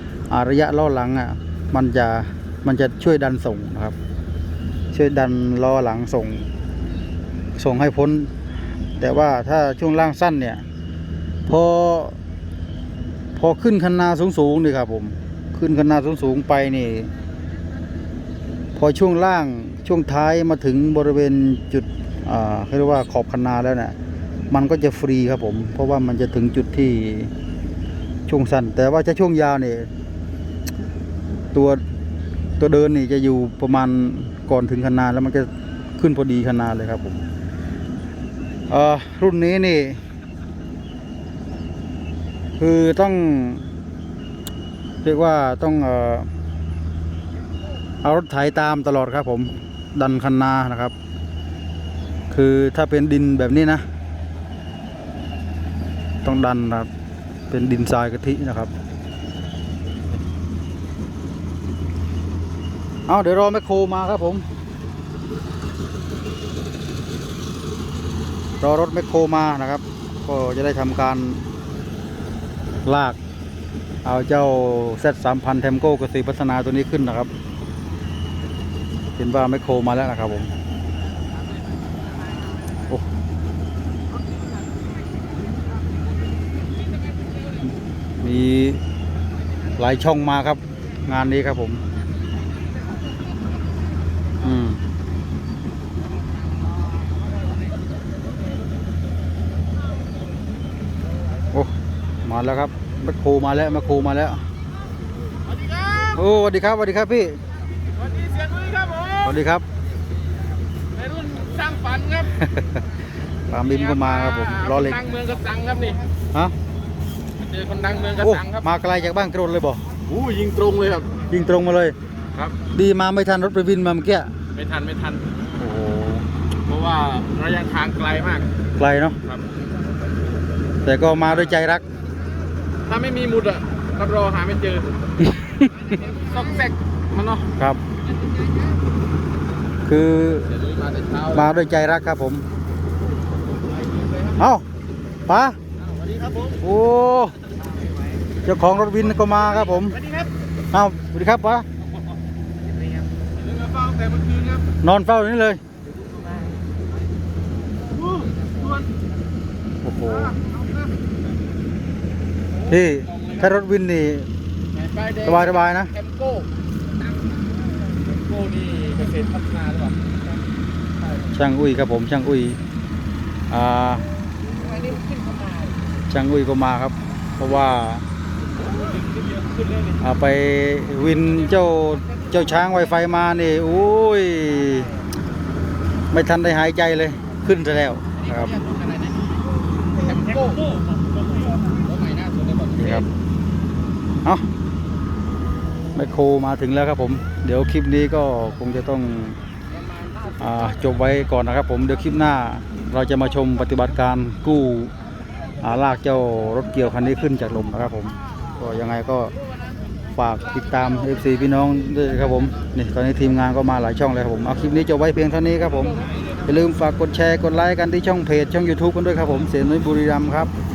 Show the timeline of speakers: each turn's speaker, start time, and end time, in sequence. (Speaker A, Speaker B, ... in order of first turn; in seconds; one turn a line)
Speaker A: 0.3-4.0
Speaker A: 4.9-6.5
Speaker A: 7.6-8.3
Speaker A: 9.0-10.6
Speaker A: 11.5-12.2
Speaker A: 13.4-17.1
Speaker A: 18.8-23.9
Speaker A: 24.5-27.3
Speaker A: 28.3-29.9
Speaker A: 31.5-31.8
Speaker A: 32.6-37.2
Speaker A: 38.7-40.0
Speaker A: 42.6-43.7
Speaker A: 45.0-46.3
Speaker A: 48.0-50.9
Speaker A: 52.3-53.8
Speaker A: 56.2-56.9
Speaker A: 57.5-58.7
Speaker A: 63.1-64.5
Speaker A: 68.6-71.4
Speaker A: 72.8-73.2
Speaker A: 74.0-77.3
Speaker A: 79.2-80.5
Speaker A: 88.2-88.8
Speaker A: 89.8-91.8
Speaker A: 94.4-94.8
Speaker A: 102.2-104.4
Speaker A: 106.1-107.4
Speaker B: 108.2-109.2
Speaker A: 109.2-109.7
Speaker B: 111.0-112.2
Speaker A: 112.3-112.8
Speaker A: 113.5-115.0
Speaker B: 114.0-116.0
Speaker B: 117.4-118.6
Speaker A: 118.2-119.8
Speaker B: 120.2-121.0
Speaker A: 121.3-122.0
Speaker A: 122.7-124.3
Speaker B: 124.6-125.2
Speaker A: 125.6-126.3
Speaker B: 126.7-128.5
Speaker A: 128.8-129.2
Speaker A: 130.8-131.8
Speaker B: 132.9-134.9
Speaker A: 135.2-135.7
Speaker B: 136.0-137.4
Speaker A: 139.9-140.6
Speaker B: 140.5-141.4
Speaker A: 141.3-142.4
Speaker A: 144.4-144.7
Speaker A: 145.3-145.6
Speaker A: 146.6-147.4
Speaker A: 148.4-150.0
Speaker A: 150.7-151.7
Speaker A: 154.8-155.6
Speaker B: 158.1-158.8
Speaker A: 159.8-160.4
Speaker A: 162.7-164.3
Speaker B: 164.8-166.5
Speaker A: 165.2-165.9
Speaker B: 168.2-170.1
Speaker A: 171.3-172.6
Speaker A: 173.5-174.1
Speaker B: 174.6-175.7
Speaker A: 176.1-178.1
Speaker A: 180.0-184.9
Speaker A: 186.1-188.6
Speaker B: 190.0-190.7
Speaker B: 191.7-193.1
Speaker A: 192.8-193.1
Speaker A: 195.9-199.4
Speaker A: 200.4-204.9
Speaker A: 205.6-209.3
Speaker A: 210.2-220.5
Speaker B: 215.9-216.4